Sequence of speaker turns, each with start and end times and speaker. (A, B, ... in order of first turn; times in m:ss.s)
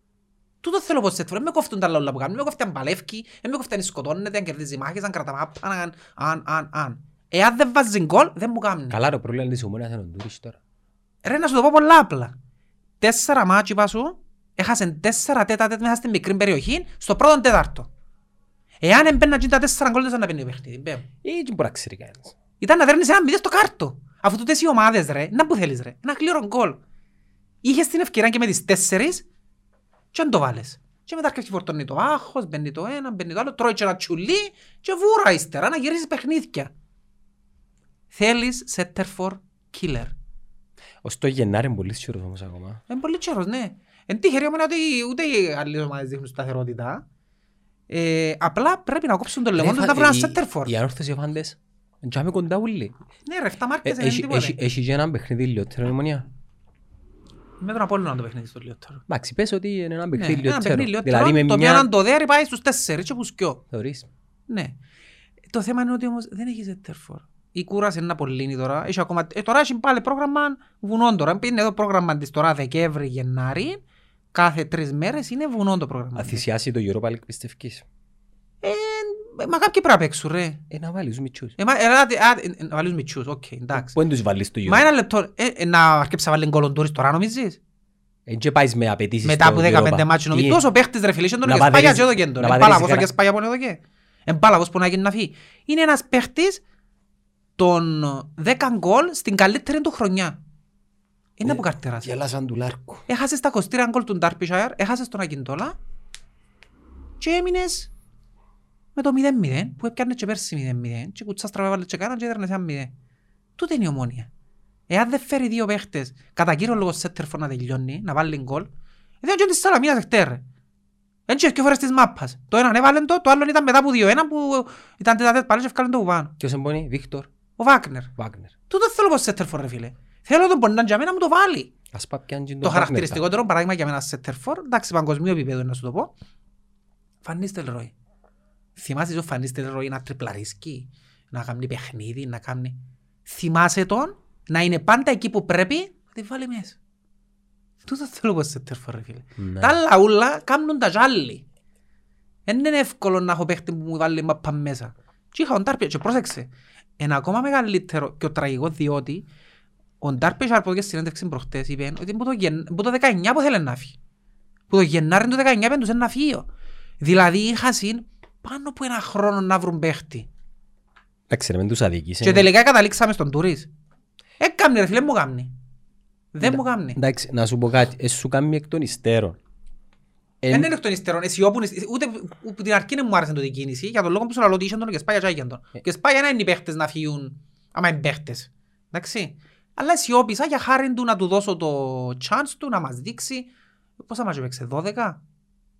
0:00.6-0:09.0 A
0:08.9-0:10.6 B
0:11.2-0:12.3 A
0:13.0-0:17.9 A
0:18.8-0:21.1 A
0:21.2-0:22.3 B
0:22.6-0:26.8 A
0:27.6-0:29.2 A
0:30.1-0:36.7 A
0:38.1-0:40.1 A
0:41.0-0:42.8 B
0:42.9-0:47.0 A
0:47.9-0:50.7 A
0:49.5-0:52.9 B
0:53.2-0:54.6 A
0:53.8-0:56.3 B
0:57.6-0:59.0 A
0:59.1-1:01.9 B
1:00.1-1:03.6 A
1:03.7-1:04.1 B
1:04.5-1:04.8 A
1:05.5-1:13.8 A
1:14.3-1:16.4 A
1:16.2-1:17.8 B
1:18.6-1:20.6 A
1:20.7-1:21.6 B
1:21.6-1:24.0 A
1:23.7-1:24.9 B
1:24.6-1:27.6 A
1:28.3-1:30.6 B
1:29.2-1:36.6 A
1:31.4-1:33.1 B
1:37.6-1:40.4 A
1:41.4-1:42.1 A
1:41.4-1:43.0 B
1:43.1-1:45.8 A
1:47.2-1:47.9 A
1:49.0-1:52.9 A
1:53.6-1:54.3 A
1:54.9-1:58.7 A
1:59.2-2:00.4 A
2:01.3-2:06.3 A
2:06.4-2:07.3 B
2:07.6-2:08.1 A
2:08.2-2:08.5 B
2:08.7-2:11.7 A
2:11.9-2:13.2 B
2:12.6-2:16.1 A
2:17.2-2:17.9 A
2:18.8-2:26.8 A
2:27.8-2:31.4 A
2:29.4-2:29.8 B
2:32.5-2:39.2 A
2:40.0-2:44.0 A
2:44.7-2:46.5 A
2:47.0-2:50.3 A
2:51.3-2:52.5 B
2:52.2-2:53.7 A
2:54.4-2:55.5 A
2:56.3-2:57.0 A
2:56.4-2:59.4 B
3:00.4-3:00.7 B
3:00.5-3:13.5 A
3:14.0-3:15.2 A